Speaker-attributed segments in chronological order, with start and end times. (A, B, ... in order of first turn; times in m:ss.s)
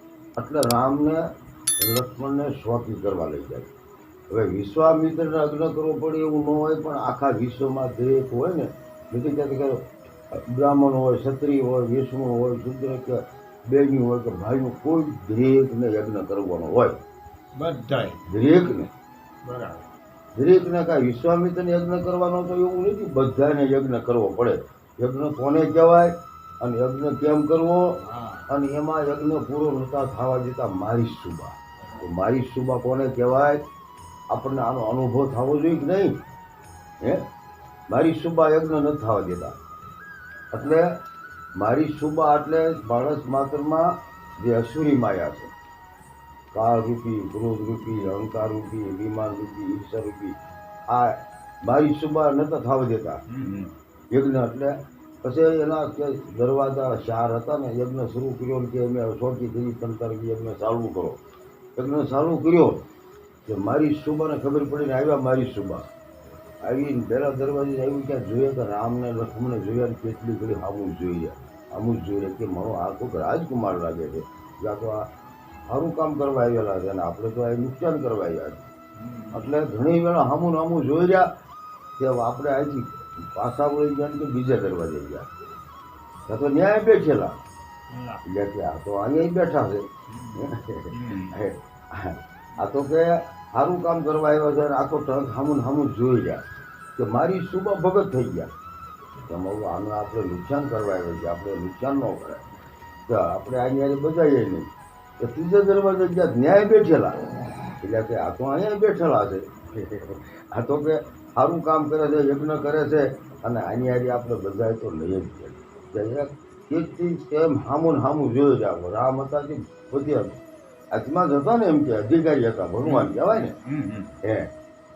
0:00.4-0:03.7 A
0:04.3-0:17.0 A
0:17.6-0:18.3 B
0:18.3-0:18.9 A
0:19.4-0:19.9 B
0:20.4-0:33.6 A
0:28.0-0:28.5 B
0:34.3-0:36.2 A
0:37.9-0:39.6 A
0:40.5-0:41.0 A
0:41.6-0:45.5 A
0:46.5-0:53.2 A
0:53.3-0:53.7 B
0:54.1-1:01.2 A
1:01.8-1:02.8 A
1:03.5-1:05.9 A
1:06.6-1:15.1 A
1:15.7-1:18.7 A
1:19.0-1:19.5 B
1:19.3-1:21.3 A
1:22.0-1:25.3 A
1:26.3-1:27.4 A
1:27.9-1:28.2 B
1:28.2-1:36.4 A
1:30.1-1:31.5 B
1:37.0-1:38.5 A
1:39.2-1:42.4 A
1:43.1-1:47.2 A
1:47.8-2:00.4 A
2:00.9-2:03.6 A
2:02.8-2:04.1 B
2:04.2-2:04.5 A